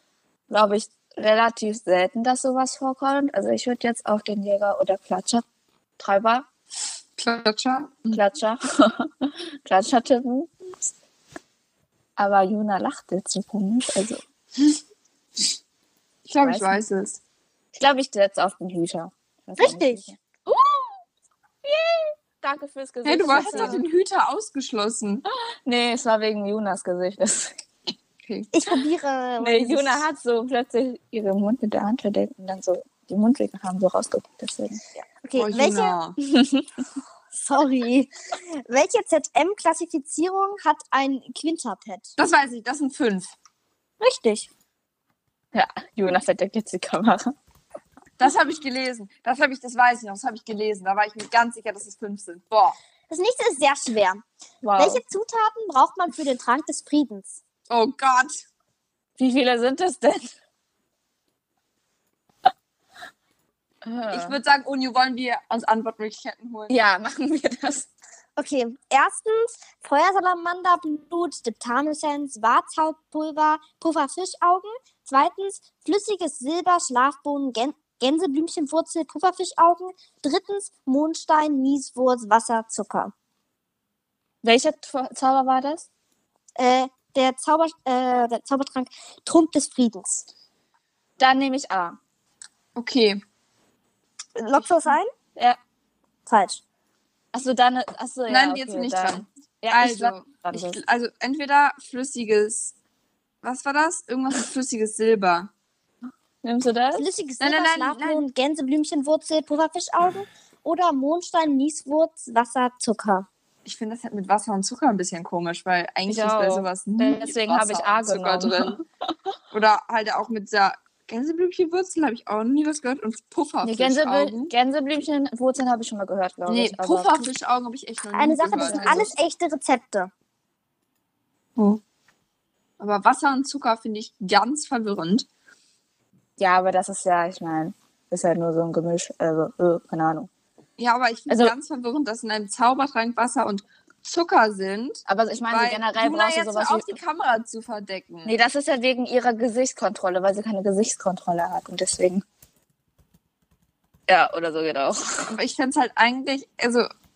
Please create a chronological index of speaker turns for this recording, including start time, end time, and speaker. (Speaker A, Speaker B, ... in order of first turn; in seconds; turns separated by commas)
Speaker A: 0.5-5.4, Speaker A: 6.0-6.5, Speaker B: 7.2-8.2, Speaker A: 8.1-10.8, Speaker A: 12.2-14.2, Speaker B: 16.3-17.2, Speaker A: 16.4-16.8, Speaker A: 17.7-21.0, Speaker C: 19.6-20.0, Speaker A: 21.6-23.8, Speaker B: 23.0-25.2, Speaker C: 23.3-23.8, Speaker A: 25.6-27.5, Speaker B: 28.2-28.5, Speaker C: 28.5-30.0, Speaker A: 29.4-34.8, Speaker C: 35.0-36.0, Speaker B: 35.4-36.2, Speaker A: 36.2-36.7, Speaker C: 37.3-42.1, Speaker B: 42.2-43.3, Speaker C: 44.0-44.5, Speaker A: 45.5-47.3, Speaker B: 48.2-52.8, Speaker C: 53.1-54.2, Speaker A: 54.6-55.0, Speaker C: 54.8-57.4, Speaker B: 57.7-58.4, Speaker A: 59.2-60.3, Speaker A: 63.8-64.3, Speaker B: 64.1-66.7, Speaker A: 66.7-67.9, Speaker C: 68.4-83.1, Speaker A: 84.4-85.8, Speaker C: 86.6-90.3, Speaker A: 91.2-92.0, Speaker B: 92.7-93.2, Speaker C: 94.4-95.1, Speaker C: 96.3-96.6, Speaker A: 97.3-100.8, Speaker B: 98.3-102.7, Speaker B: 103.4-105.5, Speaker A: 106.4-107.0, Speaker C: 106.9-113.3, Speaker B: 107.4-108.2, Speaker B: 113.6-118.8, Speaker A: 116.1-118.8, Speaker B: 119.5-124.5, Speaker A: 123.6-127.2, Speaker B: 126.5-129.1, Speaker C: 128.1-130.1, Speaker A: 128.6-129.1, Speaker B: 131.6-131.8, Speaker B: 132.8-135.3, Speaker A: 136.4-140.3, Speaker B: 140.8-148.3, Speaker A: 141.3-141.5, Speaker A: 145.1-147.0, Speaker A: 148.2-152.2, Speaker A: 154.1-155.3, Speaker B: 155.3-156.9